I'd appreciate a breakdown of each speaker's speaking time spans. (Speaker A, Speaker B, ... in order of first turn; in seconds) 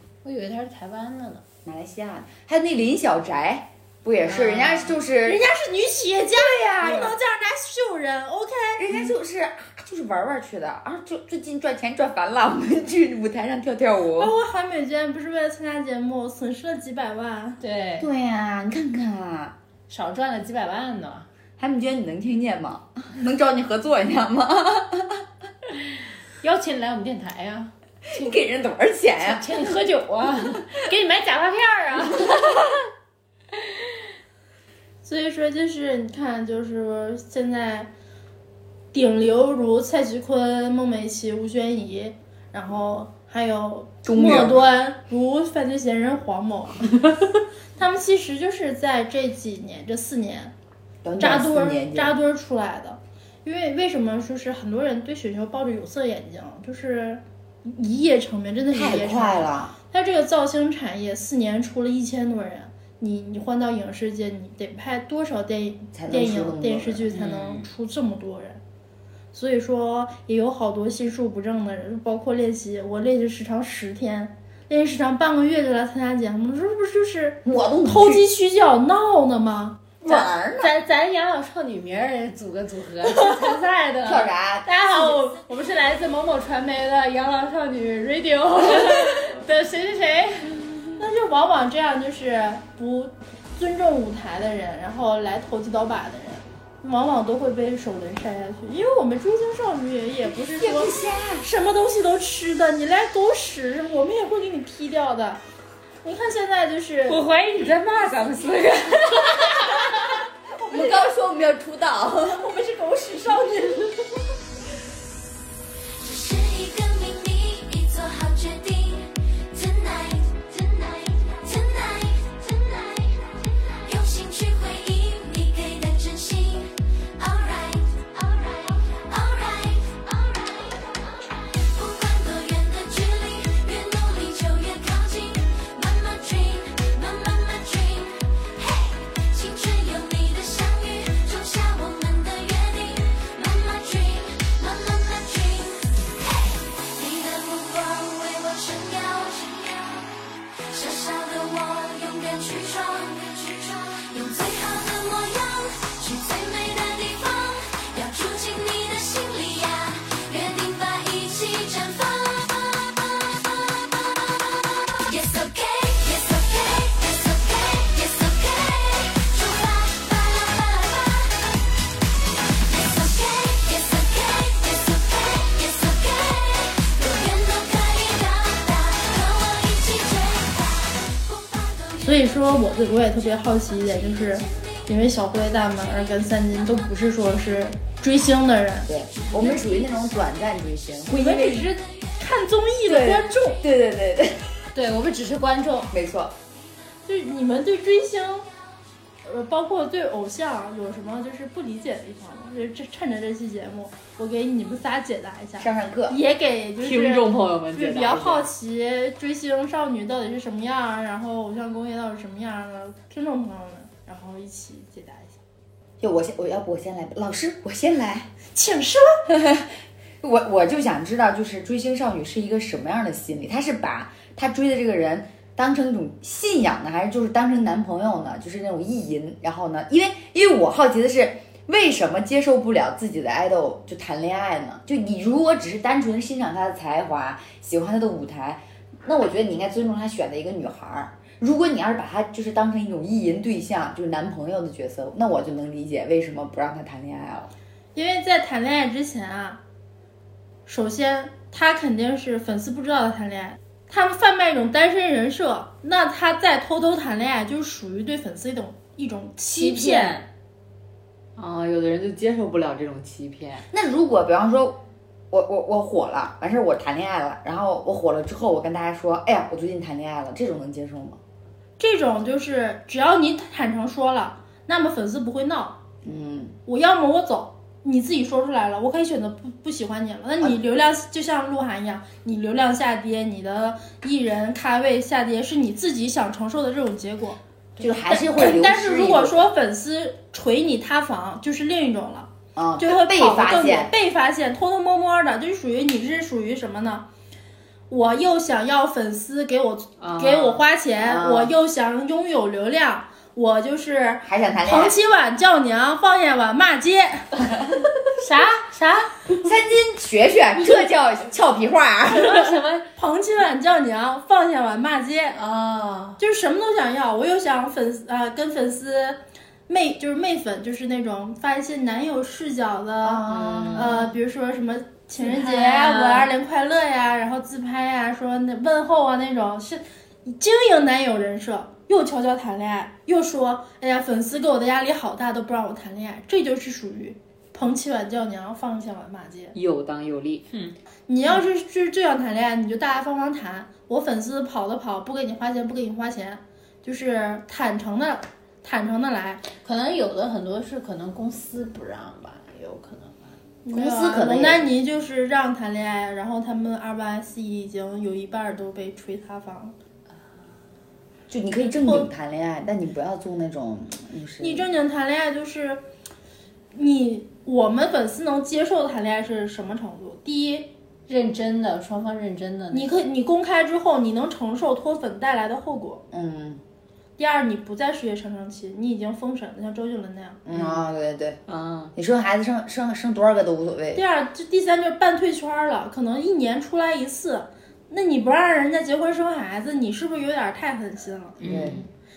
Speaker A: 0.2-1.4, 4.2-5.0, 17.6-18.1, 19.9-21.3, 26.4-28.4, 29.2-32.6, 67.1-67.7, 80.0-91.0, 107.1-109.9, 194.7-195.9, 259.4-260.3, 308.1-309.2, 312.1-312.9, 315.3-316.2, 325.2-326.3, 349.6-353.3, 371.1-372.9
Speaker B: 1.6-5.4, 6.3-7.2, 8.8-14.3, 18.0-19.6, 21.6-25.2, 28.1-29.7, 44.0-44.7, 51.0-52.1, 58.7-59.8, 65.9-67.1, 77.4-78.3, 80.0-80.7, 84.0-84.8, 100.5-101.5, 110.7-112.5, 188.9-191.7, 192.8-194.5, 195.9-196.3, 205.6-206.2, 216.0-218.3, 219.3-247.5, 263.7-264.8, 265.3-271.2, 276.0-276.6, 287.8-289.5, 292.6-293.9, 301.0-301.5, 304.2-305.0, 309.4-312.5, 323.0-324.1, 353.7-354.7, 361.3-364.7, 376.1-376.6, 380.4-381.4, 381.9-384.0, 391.4-391.8
Speaker C: 5.2-9.1, 14.2-17.6, 35.0-37.9, 38.9-47.0, 47.8-50.5, 51.2-68.6, 69.3-80.0, 91.0-105.4, 106.0-107.2, 112.3-114.0, 182.0-188.9, 191.1-193.6, 197.0-198.5, 199.2-215.4, 218.5-219.2, 247.9-249.6, 250.7-260.2, 271.8-275.8, 276.6-297.1, 297.9-307.4, 312.9-315.4, 316.2-339.5, 341.1-349.4, 353.6-359.7, 361.7-362.1, 364.4-365.8, 366.7-370.7, 372.7-376.0, 377.2-380.4, 383.9-391.4
Speaker D: 116.0-150.1, 150.7-171.7, 172.5-184.9, 189.1-189.7
Speaker E: 206.8-208.5, 261.4-263.6, 300.0-300.6, 339.5-340.4, 381.5-381.9, 391.4-391.8